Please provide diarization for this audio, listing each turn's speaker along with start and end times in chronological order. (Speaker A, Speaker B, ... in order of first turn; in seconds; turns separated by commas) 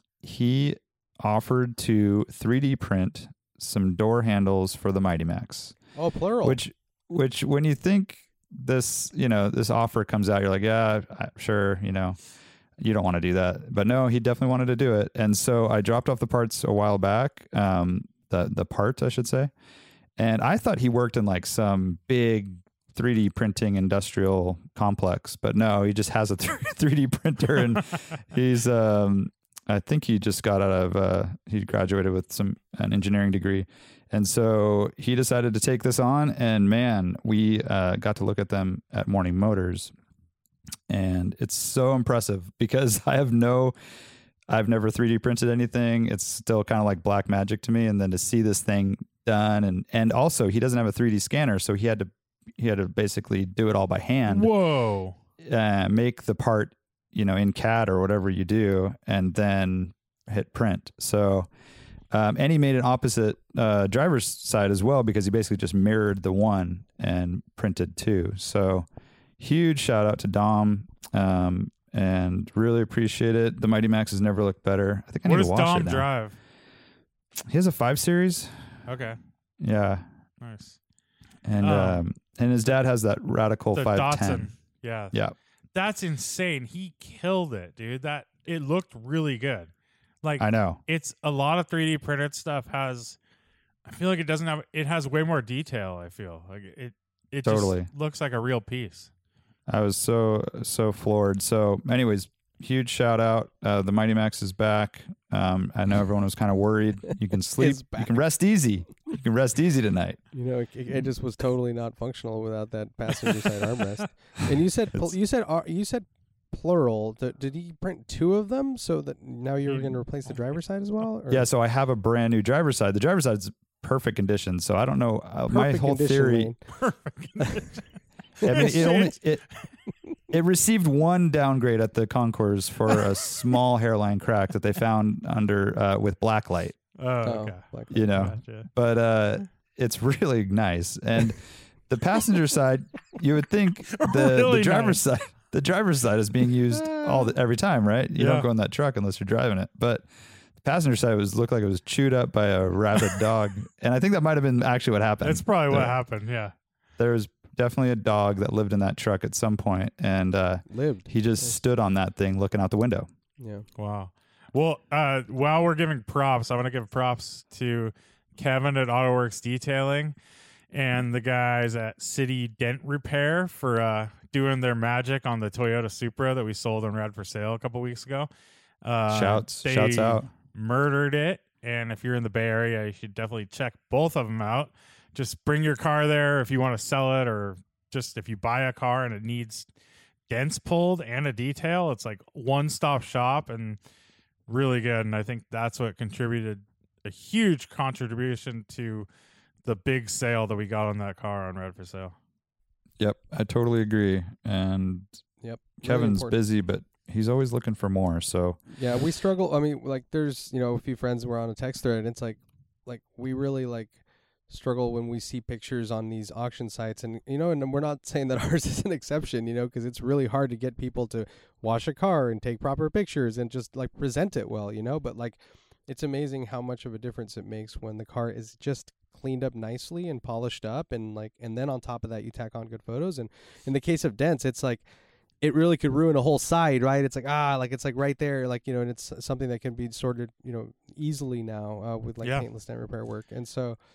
Speaker A: 0.2-5.8, Speaker B: 6.0-6.6, Speaker A: 6.4-12.2, Speaker A: 12.8-19.5, Speaker A: 20.2-39.9, Speaker A: 40.9-43.7, Speaker A: 44.5-54.5, Speaker C: 54.2-55.1, Speaker A: 55.4-61.5, Speaker A: 62.1-68.9, Speaker A: 69.4-76.1, Speaker C: 75.2-76.4, Speaker A: 77.5-78.5, Speaker C: 78.9-79.2, Speaker A: 79.6-80.0, Speaker C: 80.4-80.8, Speaker A: 81.4-84.5, Speaker C: 81.6-82.0, Speaker C: 83.7-85.2, Speaker C: 85.7-89.7, Speaker C: 90.2-93.2, Speaker A: 90.4-90.8, Speaker C: 93.8-99.1, Speaker A: 97.4-97.9, Speaker A: 99.7-110.2, Speaker B: 107.6-108.2, Speaker B: 110.3-121.5, Speaker A: 121.3-126.5, Speaker B: 125.5-126.6, Speaker C: 126.8-127.8, Speaker C: 128.4-129.2, Speaker B: 128.4-128.9, Speaker A: 128.4-129.4, Speaker A: 130.3-136.8, Speaker C: 137.0-138.7, Speaker B: 137.2-138.1, Speaker A: 137.9-150.1, Speaker C: 143.9-145.0, Speaker C: 148.2-148.5, Speaker A: 150.6-156.0, Speaker C: 155.2-156.5, Speaker A: 157.0-163.1, Speaker B: 160.7-161.6, Speaker B: 163.4-163.6, Speaker C: 163.8-170.1, Speaker C: 170.7-178.3, Speaker C: 178.8-189.7, Speaker A: 179.1-180.3, Speaker C: 190.3-193.8, Speaker C: 194.5-199.1, Speaker C: 199.6-202.1, Speaker A: 203.0-205.1, Speaker B: 205.4-206.4, Speaker A: 205.8-208.6, Speaker B: 208.7-234.8, Speaker B: 235.4-243.8